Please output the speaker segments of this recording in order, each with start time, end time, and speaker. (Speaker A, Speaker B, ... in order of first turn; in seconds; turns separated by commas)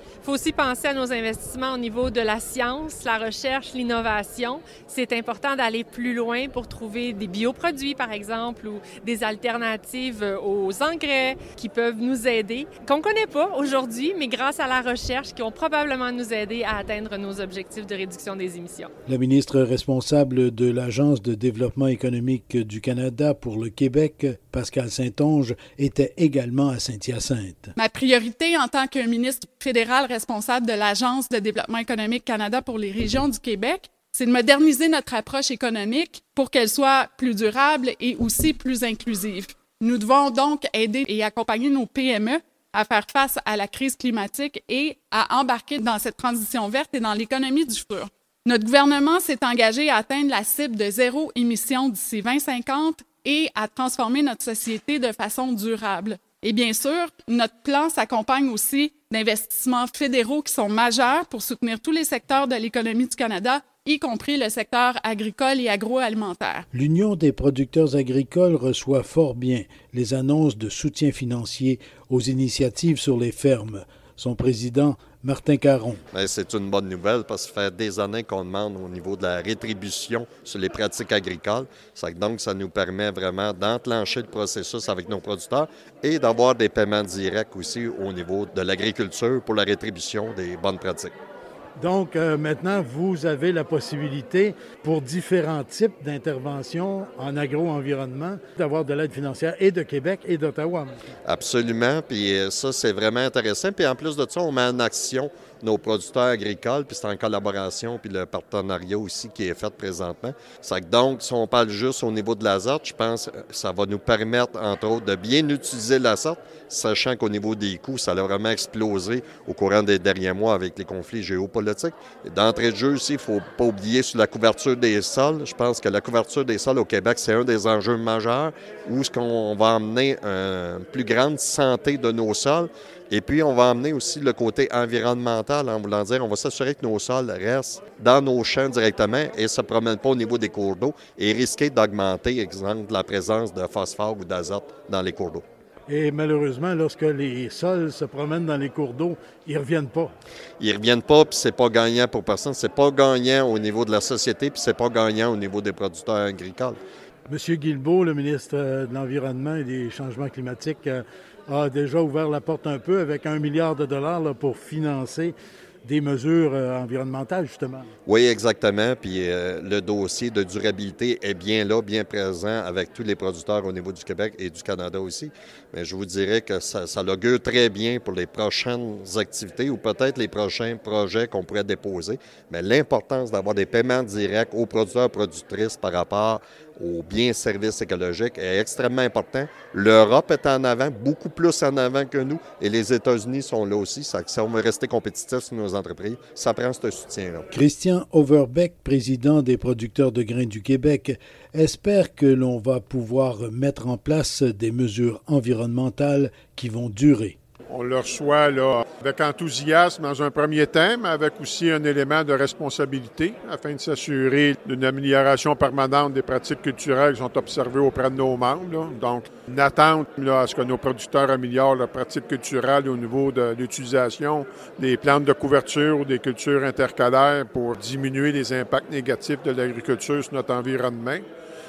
Speaker A: 0.2-18.9, Speaker B: 19.1-27.7, Speaker C: 27.8-66.7, Speaker B: 66.7-76.0, Speaker D: 76.1-91.1, Speaker B: 91.8-100.9, Speaker D: 101.3-145.4, Speaker B: 145.9-150.1, Speaker D: 150.6-156.8, Speaker B: 157.3-165.3, Speaker B: 165.8-167.9, Speaker D: 168.1-197.5, Speaker B: 197.5-207.4, Speaker E: 207.7-231.2